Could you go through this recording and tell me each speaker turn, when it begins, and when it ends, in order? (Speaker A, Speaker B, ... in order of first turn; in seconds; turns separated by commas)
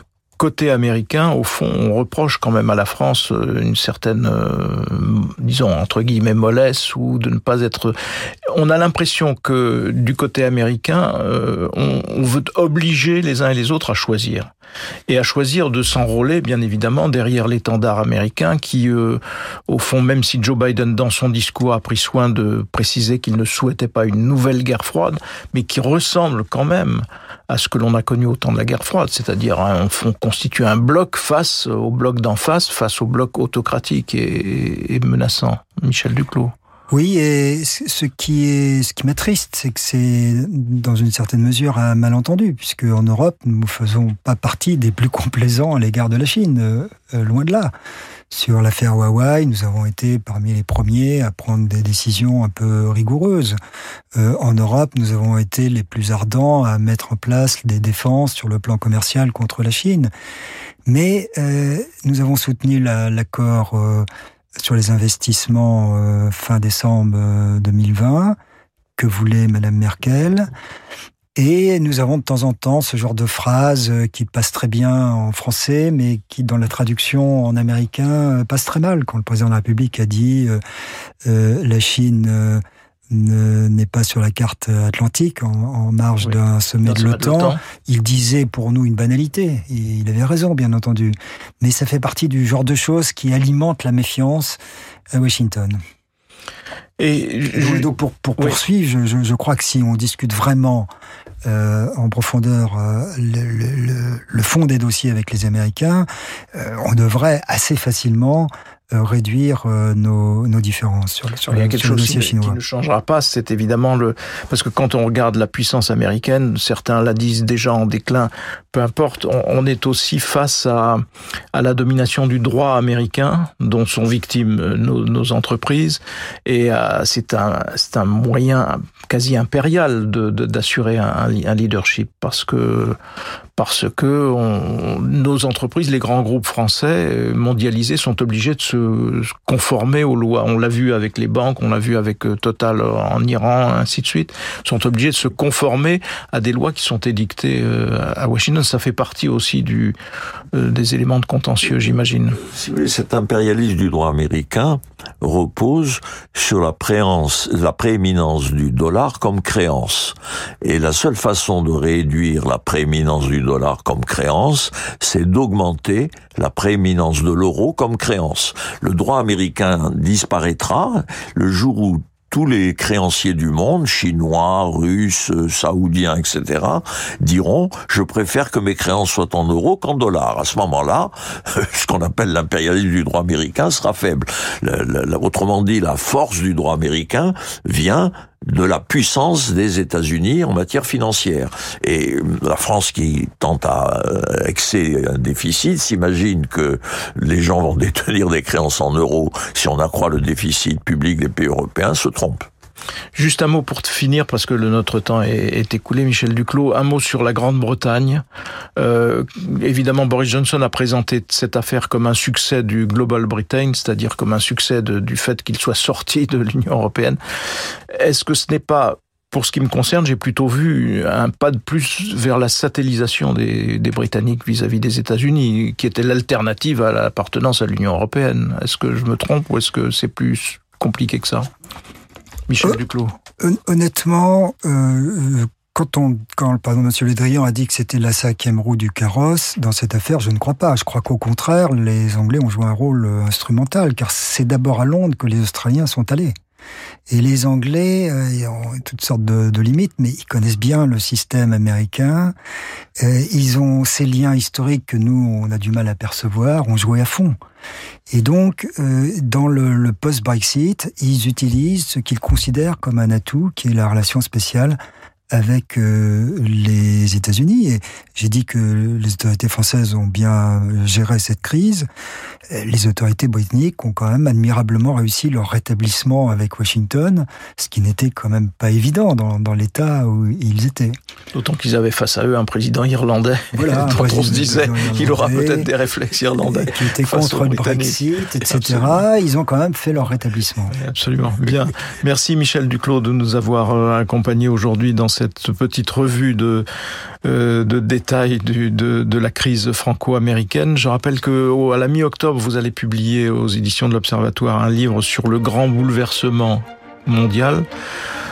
Speaker A: 0.4-7.9, Speaker A: 8.5-14.5, Speaker A: 15.1-36.5, Speaker B: 36.9-47.7, Speaker B: 48.3-53.6, Speaker B: 54.1-60.1, Speaker B: 60.9-64.0, Speaker B: 64.6-68.3, Speaker B: 69.0-70.5, Speaker B: 71.3-80.6, Speaker B: 81.2-94.6, Speaker A: 86.2-87.6, Speaker B: 95.1-95.8, Speaker A: 97.0-98.5, Speaker B: 97.5-100.9, Speaker B: 101.4-112.6, Speaker A: 111.5-133.0, Speaker A: 133.6-149.9, Speaker A: 150.5-152.4, Speaker C: 152.4-202.5, Speaker A: 203.1-208.2, Speaker A: 208.8-217.2, Speaker A: 217.9-231.5, Speaker A: 232.5-233.1, Speaker B: 233.4-246.3, Speaker B: 247.1-252.3, Speaker B: 253.0-257.4, Speaker B: 258.1-264.8, Speaker B: 265.3-271.9, Speaker B: 272.5-280.9, Speaker A: 281.3-289.0, Speaker B: 283.5-285.7, Speaker B: 286.5-290.8, Speaker A: 290.8-296.7, Speaker A: 297.2-307.6